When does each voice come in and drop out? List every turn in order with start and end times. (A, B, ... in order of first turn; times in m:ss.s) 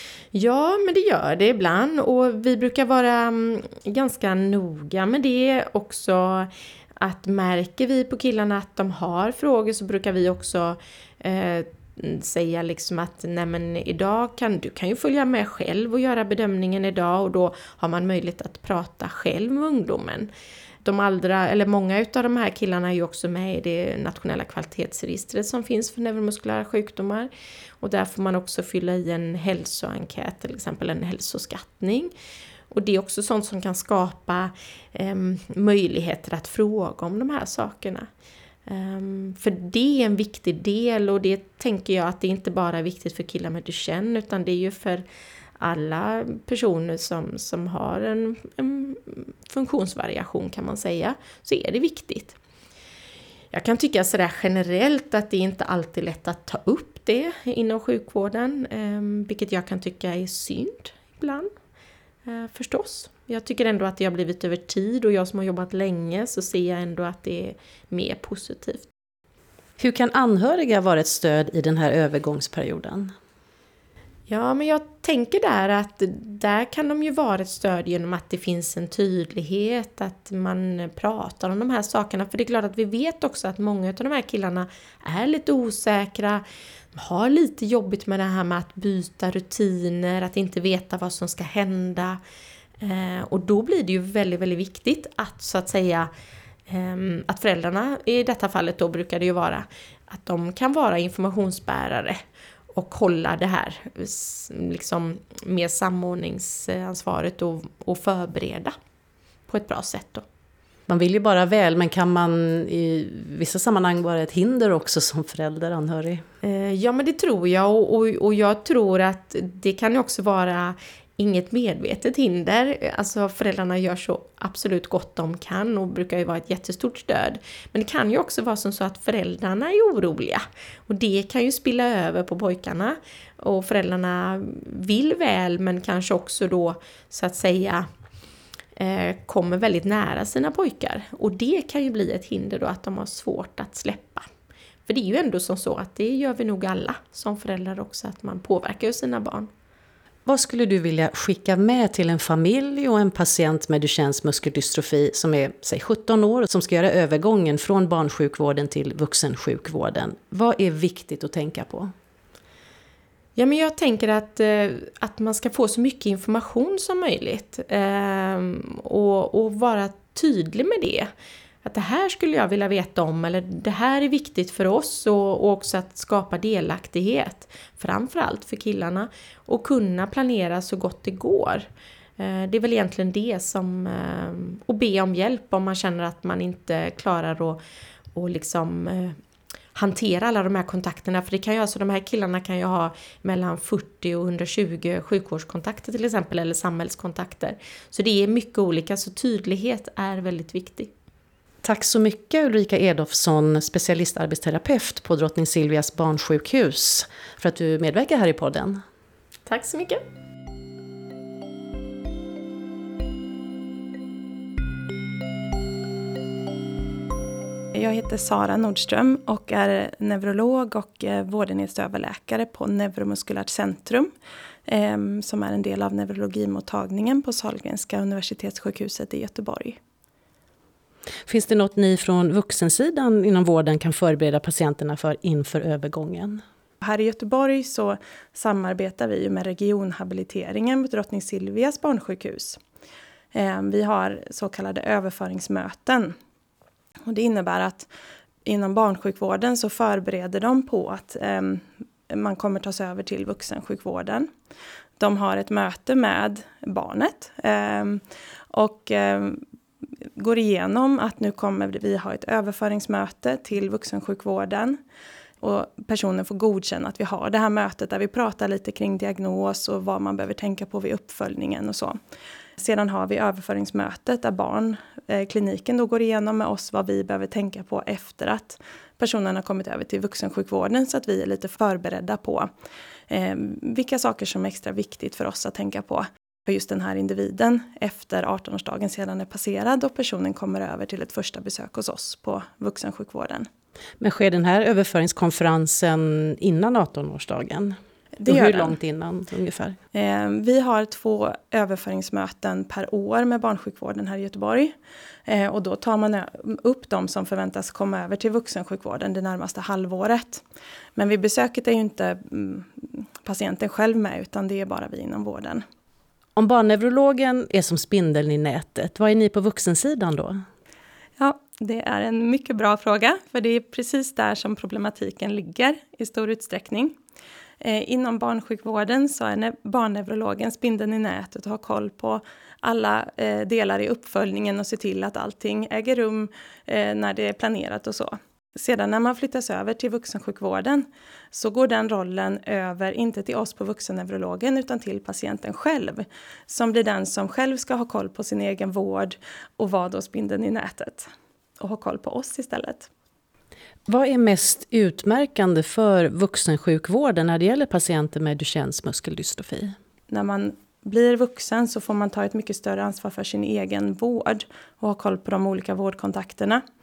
0:00.3-0:20.3 A
0:20.8-0:32.1 A
0:32.7-0:38.1 A
0:38.7-0:45.0 A
0:45.6-0:52.4 A
0:53.5-1:01.5 A
1:02.3-1:08.9 A
1:09.8-1:13.1 B
1:14.3-1:26.4 A
1:27.0-1:32.2 A
1:32.8-1:36.1 A
1:36.7-1:42.2 A
1:42.7-1:48.8 A
1:49.5-1:50.2 A
1:50.9-1:56.2 B
1:56.4-2:17.9 A
2:18.8-2:24.2 A
2:24.9-2:29.5 A
2:30.3-2:41.9 B
2:43.4-2:51.1 A
2:51.6-3:01.7 A
3:02.2-3:07.6 A
3:08.2-3:09.2 A
3:09.8-3:20.9 A
3:21.6-3:28.8 B
3:29.5-3:30.0 A
3:37.7-3:44.1 C
3:44.7-3:49.8 C
3:51.3-3:56.4 B
3:56.8-4:02.6 C
4:03.3-4:06.2 C
4:07.1-4:07.9 C
4:08.4-4:14.3 C
4:15.0-4:19.4 C
4:20.2-4:24.8 C
4:25.4-4:32.0 C
4:32.6-4:42.5 C
4:43.1-4:53.5 C
4:54.0-4:59.8 B
4:58.2-4:58.8 C
4:59.9-5:04.7 C
5:05.3-5:10.4 C
5:11.0-5:15.6 C
5:16.4-5:20.4 B
5:21.2-5:27.0 C
5:27.6-5:52.9 C
5:53.9-5:59.8 B
6:00.1-6:06.6 C